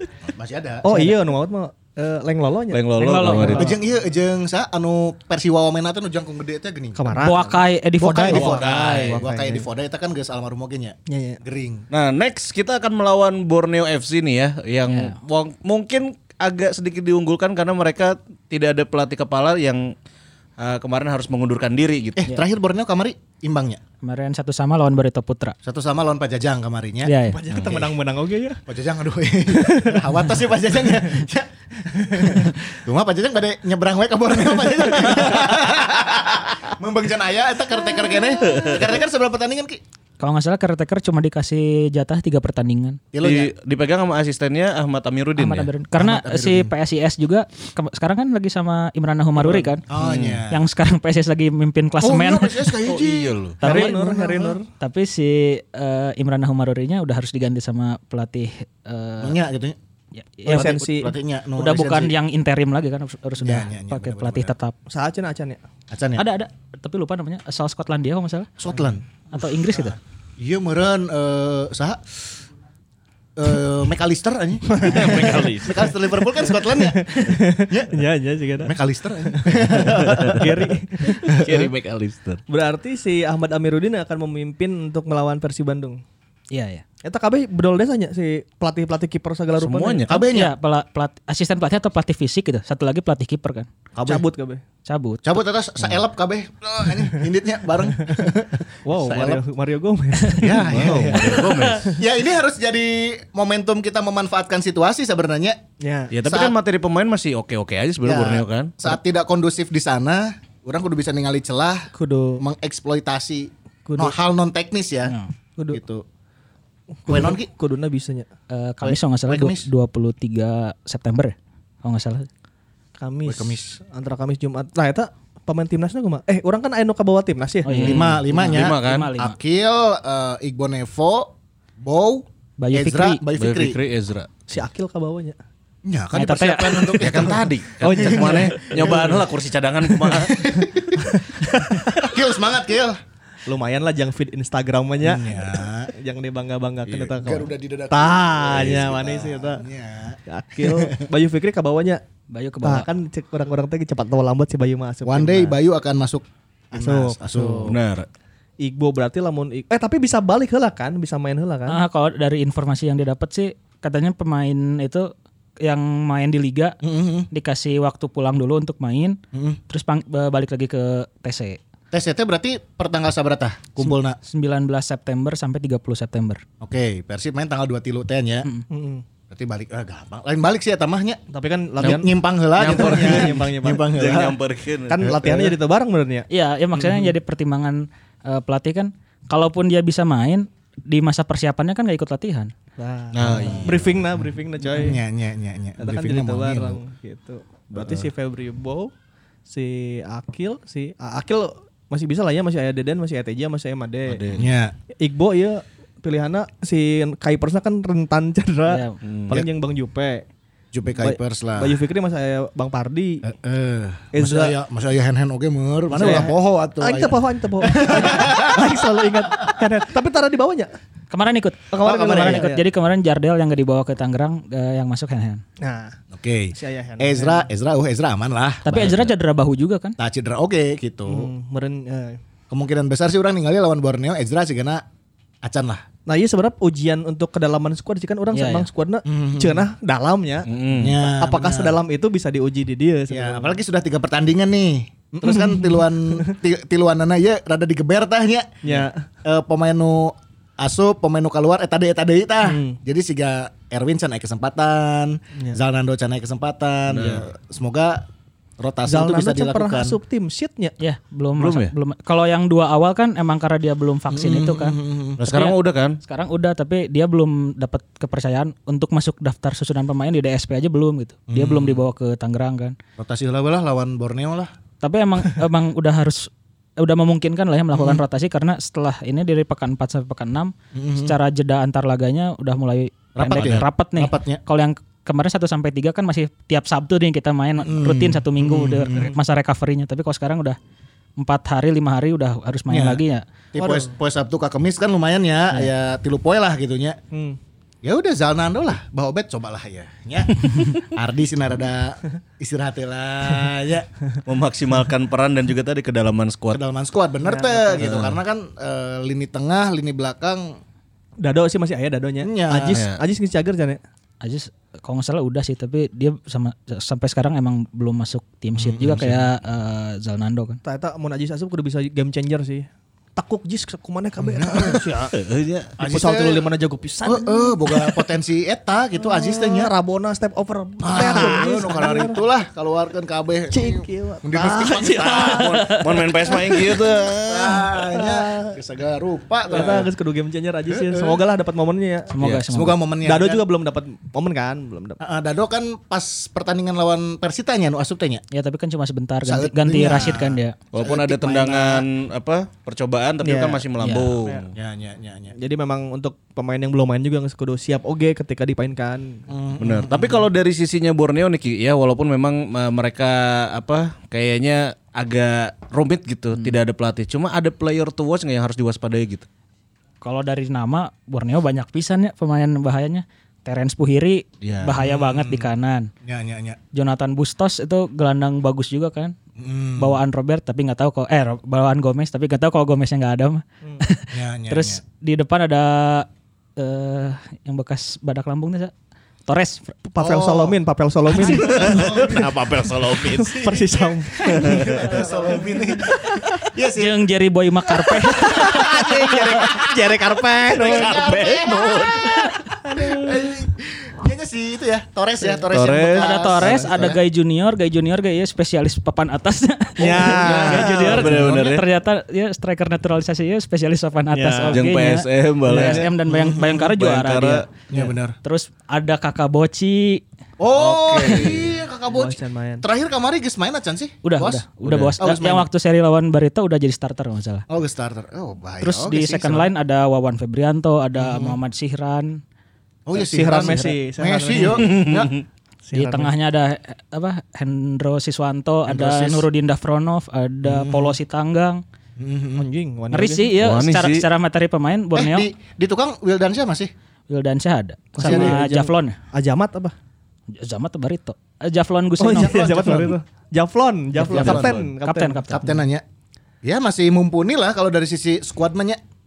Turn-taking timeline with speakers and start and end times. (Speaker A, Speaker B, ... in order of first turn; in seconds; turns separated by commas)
Speaker A: 0.2-0.9, Speaker B: 0.8-3.7, Speaker C: 2.7-3.7, Speaker D: 3.0-3.7, Speaker A: 3.5-7.2, Speaker B: 7.0-7.6, Speaker D: 7.2-9.2, Speaker A: 8.0-11.8, Speaker C: 8.2-9.2, Speaker B: 8.2-9.6, Speaker B: 11.1-11.4, Speaker C: 11.9-19.9, Speaker D: 14.9-15.1, Speaker C: 20.6-22.2, Speaker A: 22.2-23.8, Speaker D: 24.0-25.6, Speaker A: 25.6-27.9, Speaker D: 27.0-27.4, Speaker B: 27.2-28.6, Speaker A: 28.6-39.8, Speaker B: 29.5-30.0, Speaker B: 32.1-32.4, Speaker C: 38.4-38.9, Speaker D: 40.2-43.0, Speaker A: 43.1-43.5, Speaker C: 43.2-45.7, Speaker D: 45.4-49.8, Speaker A: 46.0-46.7, Speaker B: 49.4-49.7, Speaker A: 49.9-50.6, Speaker C: 50.0-50.4, Speaker D: 50.5-52.8, Speaker A: 52.0-54.5, Speaker C: 52.9-53.6, Speaker D: 53.6-59.4, Speaker B: 53.6-54.7, Speaker A: 59.2-59.8, Speaker D: 60.1-60.9, Speaker B: 60.5-61.1, Speaker A: 60.5-62.1, Speaker D: 61.6-64.7, Speaker A: 63.4-64.5, Speaker B: 64.9-65.6, Speaker A: 65.9-66.2, Speaker D: 66.2-68.5, Speaker A: 68.6-69.1, Speaker D: 69.3-70.0, Speaker A: 70.4-72.0, Speaker A: 73.4-78.0, Speaker B: 74.7-75.8, Speaker C: 74.8-75.9, Speaker B: 76.4-78.7, Speaker A: 78.6-80.5, Speaker B: 79.2-81.7, Speaker C: 79.8-80.4, Speaker C: 81.2-82.4, Speaker B: 82.5-86.0, Speaker D: 86.5-86.8, Speaker B: 87.0-90.0, Speaker C: 89.6-90.2, Speaker A: 90.1-90.5, Speaker D: 90.3-93.7, Speaker A: 93.9-94.2, Speaker B: 94.0-94.6, Speaker D: 94.8-95.3, Speaker A: 95.2-99.4, Speaker B: 98.8-101.0, Speaker A: 100.4-105.6, Speaker C: 100.7-101.9, Speaker B: 105.8-106.1, Speaker C: 106.1-108.9, Speaker A: 106.2-106.5, Speaker A: 108.0-115.1, Speaker B: 111.9-112.4, Speaker B: 113.8-114.2, Speaker D: 115.0-115.3, Speaker A: 115.7-116.0, Speaker B: 117.0-118.3, Speaker A: 117.1-117.5, Speaker D: 118.5-122.3, Speaker A: 118.8-119.7, Speaker B: 123.0-127.9, Speaker A: 123.2-123.8, Speaker D: 127.6-129.3, Speaker A: 127.8-133.8, Speaker C: 127.8-129.1, Speaker D: 132.6-133.2, Speaker C: 133.4-134.5, Speaker B: 134.5-135.4, Speaker A: 135.8-139.1, Speaker D: 136.1-137.1, Speaker C: 137.0-140.5, Speaker B: 137.8-139.2, Speaker A: 140.2-141.2, Speaker B: 141.0-142.1, Speaker A: 141.9-143.0, Speaker B: 143.4-149.6, Speaker A: 145.0-145.9, Speaker A: 147.2-151.0, Speaker B: 150.3-152.0, Speaker D: 152.3-152.9, Speaker B: 152.6-155.6, Speaker A: 155.0-157.8, Speaker B: 156.7-157.8, Speaker C: 157.7-158.1, Speaker B: 158.6-161.8, Speaker D: 161.7-166.8, Speaker A: 166.8-167.3, Speaker D: 167.3-169.2, Speaker A: 169.3-169.6, Speaker D: 169.7-171.6, Speaker A: 171.9-174.2, Speaker D: 173.8-176.4, Speaker A: 176.6-178.5, Speaker B: 178.7-179.0, Speaker A: 179.3-181.2, Speaker B: 181.3-183.9, Speaker A: 181.8-184.4, Speaker C: 182.6-185.1, Speaker B: 184.9-186.3, Speaker A: 185.0-185.5, Speaker D: 186.3-192.5, Speaker B: 192.8-195.0, Speaker C: 193.1-193.9, Speaker A: 193.2-193.8, Speaker A: 194.7-196.8, Speaker B: 195.8-198.9, Speaker C: 197.7-198.1, Speaker B: 199.5-204.2, Speaker C: 204.1-204.5, Speaker A: 204.3-204.7, Speaker B: 205.0-210.3, Speaker D: 208.7-209.0, Speaker C: 209.0-209.4, Speaker A: 210.7-211.8, Speaker B: 211.0-213.2, Speaker A: 213.2-218.8, Speaker B: 214.1-214.5, Speaker B: 215.9-220.7, Speaker D: 221.1-225.4, Speaker B: 221.7-222.6, Speaker A: 221.8-222.5, Speaker B: 225.6-226.0, Speaker A: 226.1-229.1, Speaker B: 226.5-227.5, Speaker D: 228.6-229.9, Speaker A: 230.0-231.3, Speaker B: 231.1-232.2, Speaker A: 232.5-234.8, Speaker A: 235.4-235.8, Speaker B: 236.1-240.5, Speaker D: 238.3-238.7, Speaker A: 239.1-239.7, Speaker C: 240.5-241.0, Speaker A: 240.8-241.8, Speaker B: 241.0-243.6, Speaker A: 243.1-248.7, Speaker B: 245.2-246.3, Speaker B: 248.6-249.0, Speaker A: 249.2-258.1, Speaker B: 252.4-252.8, Speaker C: 256.9-257.2, Speaker A: 258.6-260.0, Speaker B: 258.9-260.8, Speaker D: 260.8-272.8, Speaker C: 261.4-261.7, Speaker A: 264.1-265.2, Speaker C: 265.2-266.0, Speaker A: 271.3-271.8, Speaker A: 273.0-274.5, Speaker D: 274.8-290.6, Speaker A: 277.7-278.0, Speaker A: 280.7-281.2, Speaker A: 283.1-284.4, Speaker C: 283.3-283.6, Speaker A: 287.6-289.1, Speaker D: 291.2-293.2, Speaker A: 292.7-293.0, Speaker A: 293.5-297.0, Speaker B: 293.6-293.9, Speaker B: 297.1-297.4, Speaker A: 297.8-303.9, Speaker C: 304.2-306.6, Speaker A: 306.5-310.6, Speaker B: 307.2-308.0, Speaker C: 307.8-308.2, Speaker B: 311.2-313.8, Speaker A: 312.2-312.8, Speaker C: 312.7-313.0, Speaker D: 314.2-320.6, Speaker A: 318.6-319.2, Speaker B: 320.6-325.1, Speaker A: 324.2-324.8, Speaker C: 325.1-325.7, Speaker A: 325.8-326.5, Speaker B: 325.8-328.0, Speaker A: 327.0-329.7, Speaker B: 329.0-332.2, Speaker A: 330.8-335.6, Speaker B: 333.5-335.7, Speaker C: 334.8-337.7, Speaker A: 337.0-339.9, Speaker B: 337.9-338.6, Speaker B: 339.5-342.1, Speaker A: 340.7-341.2, Speaker D: 342.1-342.8, Speaker C: 342.2-342.5, Speaker A: 342.5-343.4, Speaker B: 343.0-345.0, Speaker A: 345.0-348.2, Speaker D: 348.3-350.6, Speaker A: 349.2-351.9, Speaker C: 350.7-354.5, Speaker B: 353.2-353.6, Speaker D: 353.8-354.1, Speaker A: 354.5-355.3, Speaker B: 355.3-359.2, Speaker A: 359.3-360.2, Speaker C: 359.6-369.2, Speaker D: 370.0-375.9, Speaker C: 374.4-374.8, Speaker A: 374.7-375.5, Speaker A: 376.0-376.6, Speaker D: 376.7-379.1, Speaker A: 379.4-380.0, Speaker D: 379.8-388.7, Speaker A: 384.1-384.8, Speaker D: 389.3-389.8, Speaker B: 389.8-392.2, Speaker A: 390.0-390.6, Speaker A: 391.1-392.3, Speaker C: 391.3-393.5, Speaker B: 393.1-396.4, Speaker A: 393.4-397.0, Speaker C: 394.4-394.8, Speaker D: 396.7-398.9, Speaker A: 397.9-399.8, Speaker B: 398.2-401.0, Speaker A: 400.5-407.0, Speaker C: 400.6-402.2, Speaker B: 402.7-403.1, Speaker C: 405.5-406.2, Speaker D: 405.9-417.5, Speaker B: 409.8-411.0, Speaker A: 409.8-411.5, Speaker C: 410.3-411.6, Speaker B: 414.1-414.6, Speaker C: 414.5-415.9, Speaker B: 415.5-415.8, Speaker A: 415.6-416.7, Speaker C: 416.6-417.4, Speaker A: 417.7-418.2, Speaker D: 418.2-420.0, Speaker A: 420.4-424.4, Speaker C: 420.5-421.5, Speaker B: 421.9-422.6, Speaker D: 424.0-427.4, Speaker C: 424.6-424.9, Speaker A: 425.0-425.5, Speaker A: 427.5-429.5, Speaker D: 428.6-432.2, Speaker A: 430.9-431.4, Speaker A: 432.9-435.1, Speaker B: 432.9-434.7, Speaker C: 434.4-435.2, Speaker B: 435.6-436.1, Speaker D: 435.7-441.6, Speaker A: 438.6-439.3, Speaker A: 440.4-441.0, Speaker A: 442.0-442.4, Speaker B: 442.4-443.3, Speaker D: 442.9-445.3, Speaker C: 443.4-444.1, Speaker A: 444.9-446.7, Speaker D: 447.1-449.0, Speaker B: 447.9-449.7, Speaker A: 448.0-448.4, Speaker D: 450.3-452.6, Speaker B: 452.0-455.4, Speaker A: 452.1-453.0, Speaker A: 454.0-454.6, Speaker D: 454.0-455.5, Speaker A: 455.3-455.8, Speaker A: 456.4-458.8